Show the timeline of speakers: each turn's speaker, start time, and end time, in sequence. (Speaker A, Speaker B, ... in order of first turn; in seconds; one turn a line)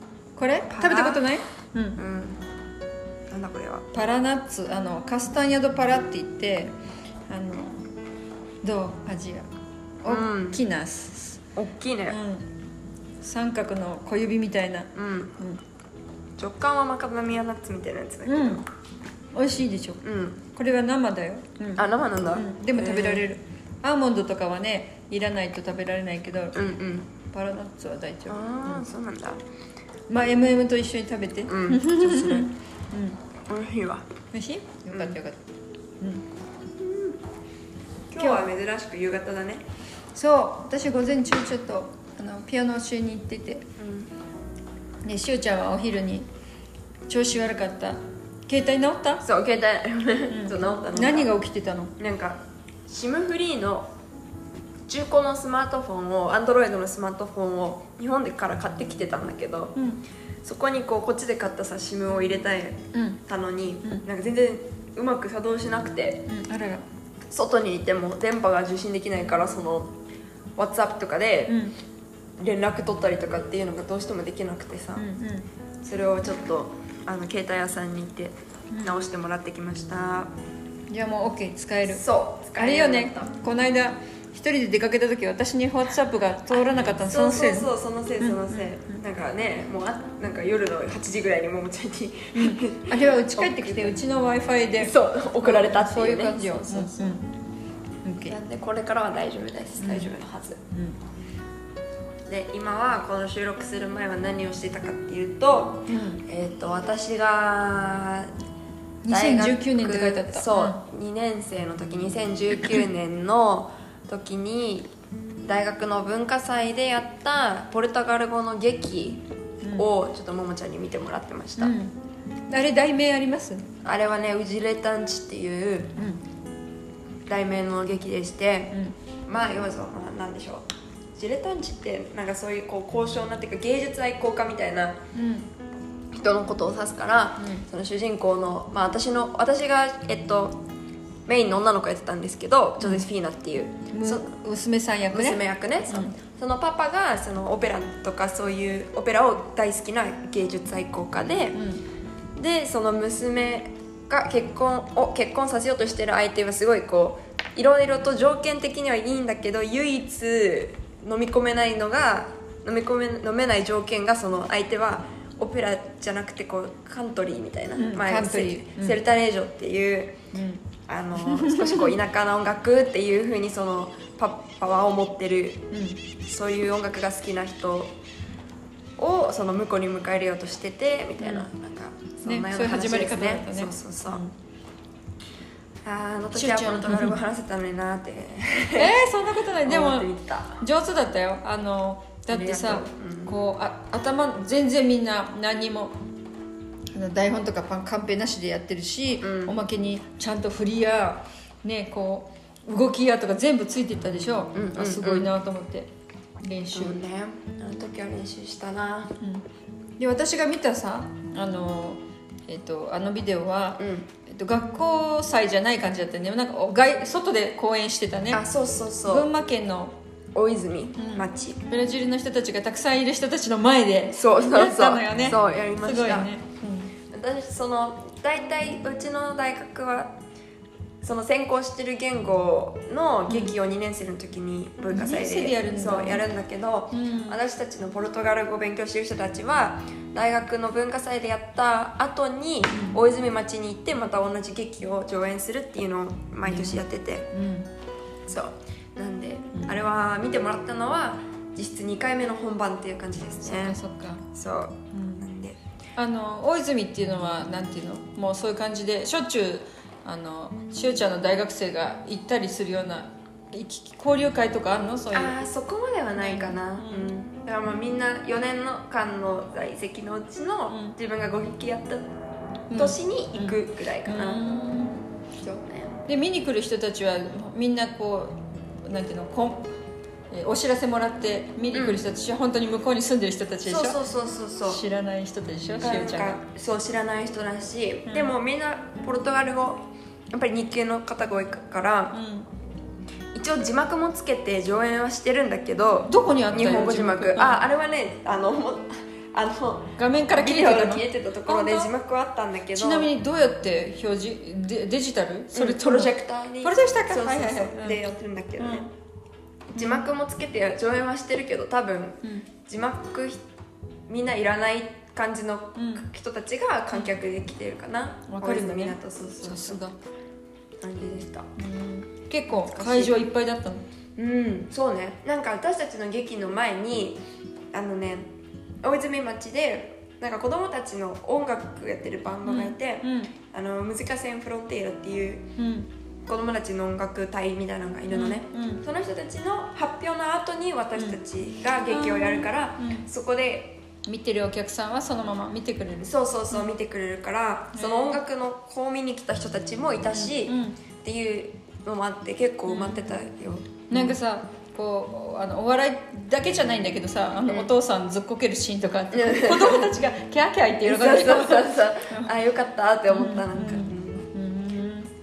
Speaker A: 0.4-2.0
Speaker B: 0.7-1.3
Speaker B: 2.0-2.4
Speaker B: 3.3-3.9
Speaker A: 3.9-6.7
Speaker A: 7.3-7.8
Speaker A: 8.6-9.5
Speaker A: 10.0-11.5
Speaker B: 10.1-10.6
Speaker B: 11.6-12.2
Speaker A: 12.1-12.5
Speaker A: 13.2-15.6
Speaker B: 14.9-15.3
Speaker B: 16.4-18.6
Speaker A: 18.3-18.6
Speaker A: 19.3-26.7
Speaker B: 20.0-20.4
Speaker B: 21.8-23.3
Speaker B: 26.6-27.1
Speaker A: 27.2-28.9
Speaker B: 28.3-29.4
Speaker A: 30.1-33.2
Speaker B: 31.5-32.5
Speaker B: 33.5-34.0
Speaker A: 34.3-35.4
Speaker A: 36.0-36.2
Speaker B: 36.8-37.2
Speaker B: 38.1-39.6
Speaker A: 38.2-38.5
Speaker A: 40.1-43.6
Speaker B: 43.8-44.1
Speaker A: 45.0-46.3
Speaker A: 47.1-49.2
Speaker B: 49.2-51.3
Speaker A: 50.3-51.9
Speaker B: 52.0-53.9
Speaker B: 54.9-59.7
Speaker A: 59.8-60.0
Speaker B: 60.4-66.2
Speaker A: 62.9-63.2
Speaker A: 66.2-66.8
Speaker B: 67.3-69.9
Speaker B: 70.6-71.6
Speaker A: 71.5-71.8
Speaker B: 72.4-75.0
Speaker A: 75.0-75.5
Speaker B: 75.8-80.3
Speaker A: 78.7-79.0
Speaker A: 80.9-89.0
Speaker B: 81.9-83.3
Speaker B: 87.0-94.0
Speaker A: 92.3-97.3
Speaker B: 94.8-97.2
Speaker A: 98.0-98.4
Speaker B: 98.2-100.6
Speaker A: 99.8-100.1
Speaker A: 100.7-101.0
Speaker B: 102.3-108.3
Speaker A: 105.9-106.2
Speaker A: 109.0-110.8
Speaker B: 109.1-114.9
Speaker B: 115.5-121.8
Speaker A: 119.6-119.9
Speaker A: 121.6-121.9
Speaker A: 122.5-123.7
Speaker B: 123.8-125.9
Speaker A: 126.0-126.2
Speaker B: 127.3-128.8
Speaker B: 129.3-130.6
Speaker B: 131.2-135.0
Speaker A: 135.1-135.5
Speaker B: 136.1-140.6
Speaker A: 137.4-137.7
Speaker B: 141.3-144.3
Speaker A: 142.8-143.1
Speaker A: 143.9-146.2
Speaker B: 145.1-151.6
Speaker A: 151.5-151.8
Speaker B: 152.4-170.2
Speaker A: 167.8-169.0
Speaker A: 170.3-170.7
Speaker B: 170.9-175.6
Speaker A: 171.2-171.8
Speaker A: 175.7-176.1
Speaker B: 176.2-177.9
Speaker B: 179.0-184.3
Speaker A: 181.2-181.5
Speaker A: 182.2-184.3
Speaker B: 185.9-189.0
Speaker A: 186.3-187.2
Speaker A: 188.8-195.9
Speaker B: 189.7-190.6
Speaker B: 192.3-193.4
Speaker A: 196.9-205.9
Speaker B: 199.2-199.6
Speaker B: 204.5-205.3
Speaker A: 206.4-207.0
Speaker B: 206.7-209.1
Speaker A: 209.2-209.4
Speaker A: 210.0-218.4
Speaker B: 213.8-214.1
Speaker B: 218.3-219.3
Speaker A: 219.1-219.9
Speaker B: 220.3-221.6
Speaker A: 221.0-227.0
Speaker B: 224.1-226.3
Speaker B: 227.1-230.1
Speaker B: 231.0-247.3
Speaker A: 233.3-233.6
Speaker A: 234.9-236.2
Speaker A: 236.9-237.4
Speaker A: 242.7-243.0
Speaker A: 246.4-247.7
Speaker B: 248.3-253.8
Speaker A: 249.5-249.8
Speaker A: 253.4-254.3
Speaker B: 254.3-255.6
Speaker A: 254.9-255.3
Speaker A: 256.0-265.4
Speaker B: 265.1-272.1
Speaker A: 266.2-267.1
Speaker A: 270.7-271.0
Speaker A: 272.7-275.1
Speaker B: 272.7-274.4
Speaker B: 275.4-276.0
Speaker A: 276.1-279.7
Speaker A: 280.3-284.0
Speaker B: 281.7-282.0
Speaker B: 283.6-284.8
Speaker A: 284.6-286.4
Speaker B: 285.8-292.2
Speaker A: 288.1-288.4
Speaker A: 292.1-292.5
Speaker B: 293.4-303.1
Speaker A: 296.1-297.6
Speaker A: 300.0-301.9
Speaker A: 302.7-308.1
Speaker B: 305.5-308.9
Speaker A: 308.6-308.9
Speaker B: 309.7-313.4
Speaker A: 309.8-310.1
Speaker A: 312.2-312.5
Speaker B: 314.1-319.8
Speaker A: 315.8-316.1
Speaker A: 318.3-319.9
Speaker B: 320.8-321.5
Speaker A: 321.6-323.8
Speaker B: 322.7-323.2
Speaker B: 324.2-327.2
Speaker B: 327.7-328.3
Speaker B: 328.8-335.5
Speaker A: 332.5-333.4
Speaker A: 335.6-335.9
Speaker B: 336.3-343.8
Speaker A: 338.1-338.9
Speaker A: 340.9-341.2
Speaker A: 341.9-343.1
Speaker A: 344.0-346.8
Speaker B: 346.0-354.2
Speaker A: 347.7-348.2
Speaker A: 350.1-350.8
Speaker A: 352.7-353.1
Speaker A: 353.9-362.3
Speaker B: 357.4-357.7
Speaker B: 359.1-359.9
Speaker B: 360.8-364.2
Speaker A: 363.1-365.1